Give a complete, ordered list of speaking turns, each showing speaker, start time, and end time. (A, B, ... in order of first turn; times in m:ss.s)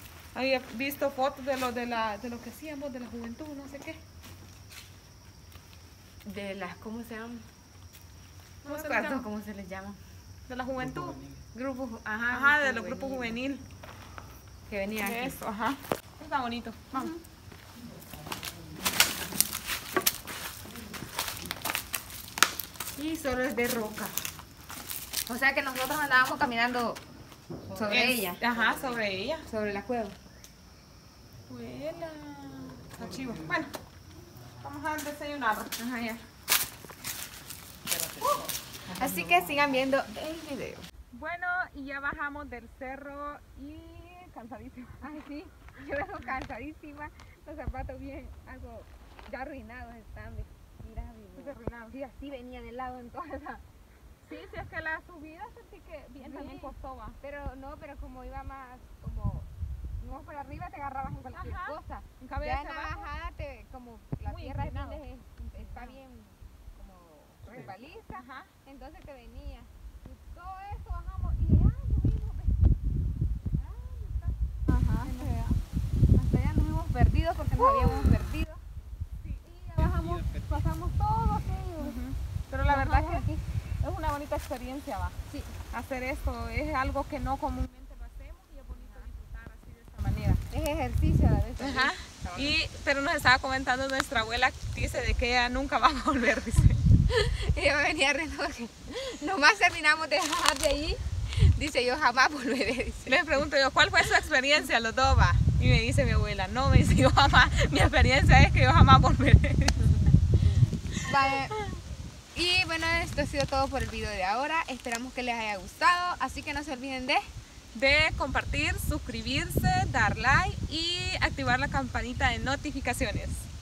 0:00.3-0:04.0 A
0:06.2-0:07.4 B
0:08.6-0:09.2 A
0:08.6-0:10.0 B
0:10.5-0:11.2 A
0:11.5-0:13.4 B
0:12.3-0:13.6 A
0:14.7-0:15.4 B
0:15.0-0:17.2 A
0:23.0-0:24.2 B
0:25.3-0:27.0 B
0:27.7-0:28.4 B
0:27.7-0:29.4 A
0:29.4-0:30.2 B
0:31.5-0:33.7 A
0:34.6-0:35.7 A
0:35.8-0:36.2 B
0:38.0-0:38.4 A
0:38.2-0:40.8 B
0:41.1-0:45.2 A
0:45.0-0:53.6 B
0:51.4-0:52.0 A
0:54.2-0:55.1 A
0:54.3-0:59.5 B
0:56.1-0:57.2 A
1:00.0-1:12.7 B
1:01.3-1:03.1 A
1:04.2-1:05.0 A
1:05.6-1:06.0 A
1:08.1-1:08.5 A
1:13.5-1:14.4 B
1:14.7-1:15.6 A
1:15.0-1:15.6 B
1:16.1-1:18.6 B
1:17.5-1:18.3 A
1:19.4-1:22.0 B
1:21.8-1:25.1 A
1:22.6-1:23.4 B
1:25.3-1:25.6 B
1:25.7-1:30.4 A
1:30.5-1:32.6 B
1:31.6-1:36.8 A
1:37.1-1:43.4 B
1:43.0-1:50.0 A
1:50.9-1:51.8 A
1:51.0-1:51.5 B
1:52.3-1:57.2 B
1:57.7-2:03.5 A